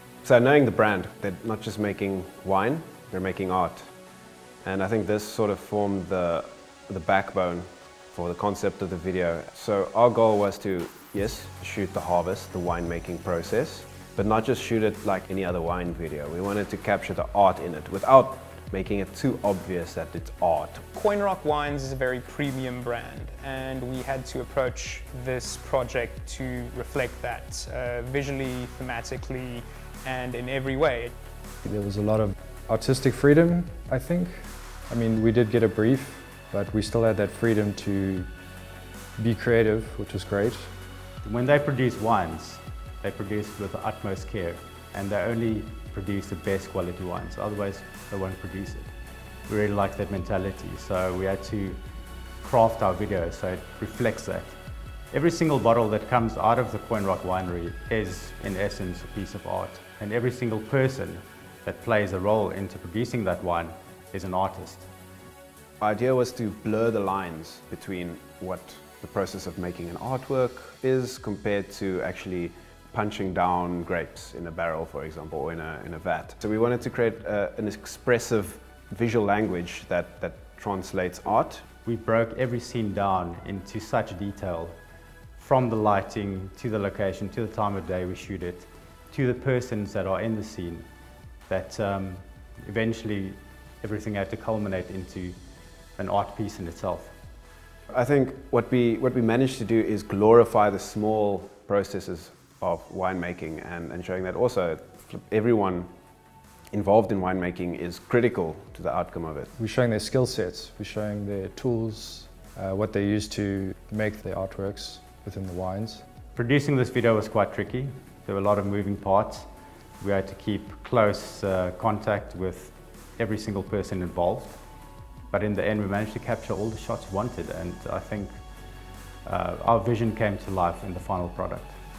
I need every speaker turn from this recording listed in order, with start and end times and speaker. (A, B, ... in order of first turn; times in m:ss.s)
0:00.2-0:04.0 A
0:04.6-0:20.8 A
0:20.9-0:31.1 B
0:31.6-0:38.4 C
0:39.2-0:40.7 C
0:41.2-0:48.9 D
0:49.4-1:04.9 D
1:05.8-1:21.6 A
1:21.8-1:37.2 D
1:37.9-1:45.9 A
1:46.7-1:49.5 A
1:49.5-1:56.0 C
1:56.3-2:04.7 D
2:05.3-2:08.7 D
2:09.2-2:11.8 D